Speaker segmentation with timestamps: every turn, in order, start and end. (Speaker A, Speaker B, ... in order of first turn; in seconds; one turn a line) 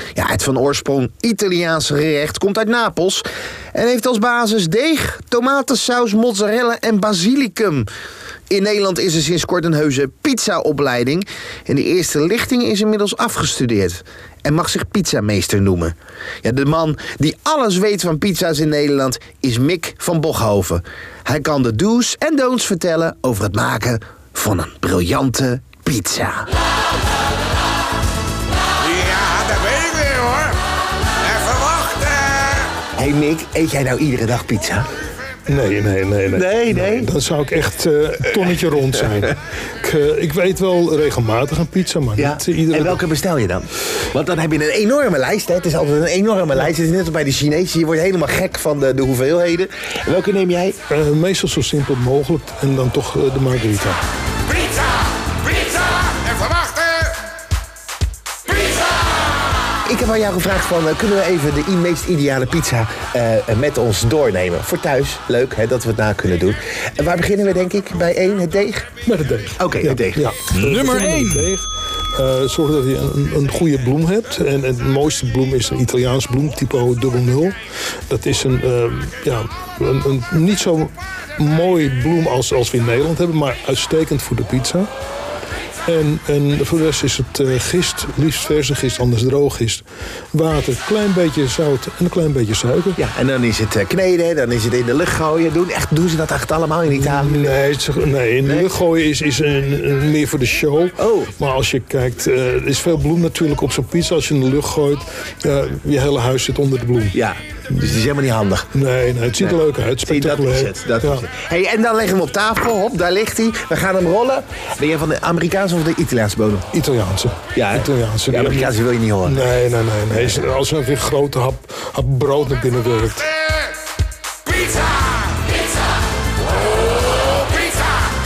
Speaker A: 0.1-7.9
Speaker A: 8.5-26.5
Speaker B: 28.8-30.6
Speaker B: 31.3-32.6
Speaker A: 33.0-34.9
Speaker C: 35.5-43.0
Speaker A: 36.3-37.1
Speaker A: 42.2-50.8
Speaker C: 50.9-54.0
Speaker B: 56.3-57.1
Speaker A: 59.9-68.9
Speaker C: 69.1-77.6
Speaker A: 69.6-70.2
Speaker B: 70.5-71.5
Speaker C: 78.1-84.9
Speaker C: 85.9-93.0
Speaker A: 93.0-97.5
Speaker C: 96.9-108.0
Speaker A: 101.0-101.3
Speaker A: 107.1-108.7
Speaker C: 108.7-111.3
Speaker A: 109.4-116.7
Speaker C: 116.7-118.7
Speaker A: 117.5-119.5
Speaker C: 119.3-123.3
Speaker A: 120.1-120.5